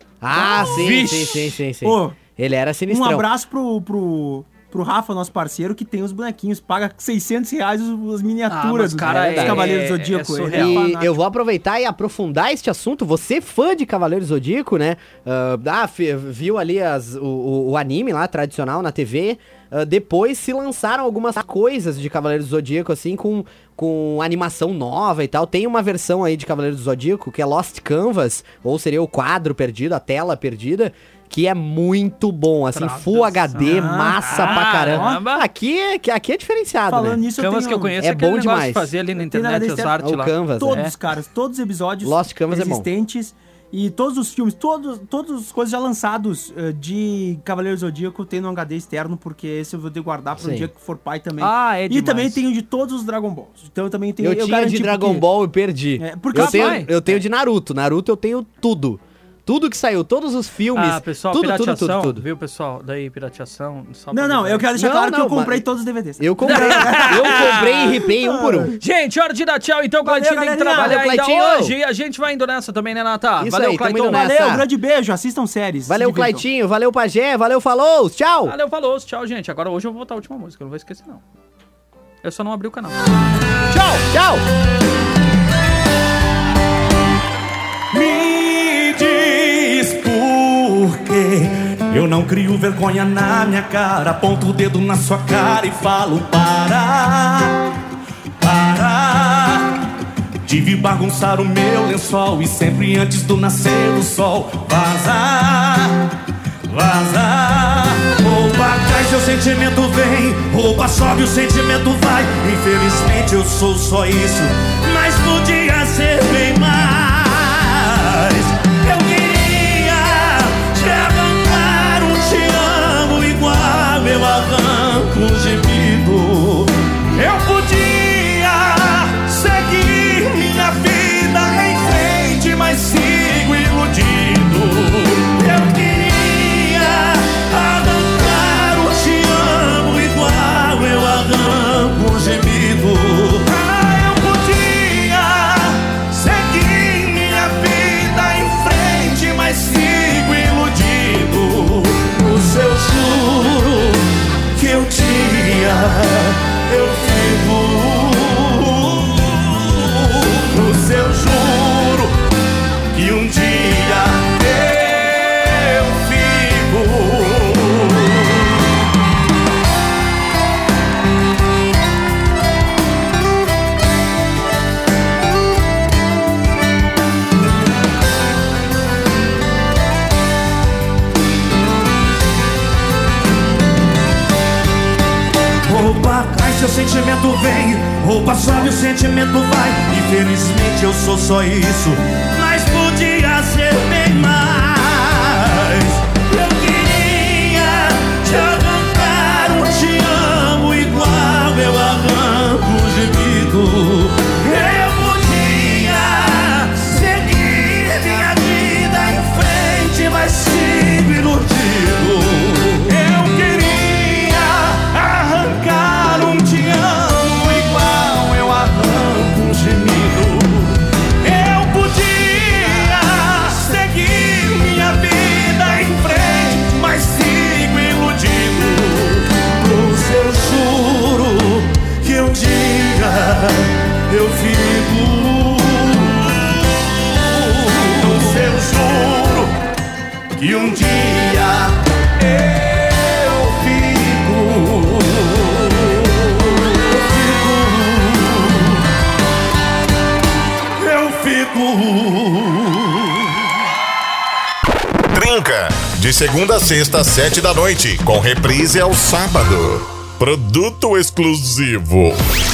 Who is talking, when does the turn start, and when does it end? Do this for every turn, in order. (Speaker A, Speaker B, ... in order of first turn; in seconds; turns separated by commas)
Speaker A: 0.2-3.3, Speaker B: 0.3-1.6, Speaker C: 1.8-2.2, Speaker C: 2.9-11.1, Speaker B: 8.5-10.9, Speaker A: 9.0-9.8, Speaker A: 10.5-37.2, Speaker B: 32.7-35.5, Speaker C: 33.6-35.2, Speaker C: 36.9-38.0, Speaker B: 37.4-41.0, Speaker A: 38.0-38.9, Speaker C: 39.2-55.3, Speaker A: 40.0-40.9, Speaker A: 42.0-42.9, Speaker A: 50.4-50.7, Speaker B: 51.4-52.4, Speaker A: 54.2-62.2, Speaker C: 56.0-57.2, Speaker B: 56.3-56.9, Speaker B: 60.7-64.7, Speaker C: 64.1-68.8, Speaker A: 64.7-65.7, Speaker A: 66.2-68.7, Speaker B: 66.4-67.9, Speaker B: 68.8-74.2, Speaker C: 70.0-71.0, Speaker A: 70.8-71.7, Speaker A: 73.4-74.6, Speaker C: 74.1-76.4, Speaker A: 75.9-78.5, Speaker B: 78.5-81.2, Speaker B: 82.2-83.0, Speaker A: 83.7-84.5, Speaker D: 87.9-97.7, Speaker D: 98.4-99.8, Speaker D: 100.4-106.1, Speaker D: 106.7-162.2, Speaker D: 162.9-168.5, Speaker D: 185.6-239.5, Speaker D: 240.4-248.8, Speaker D: 250.8-253.4, Speaker E: 255.1-262.2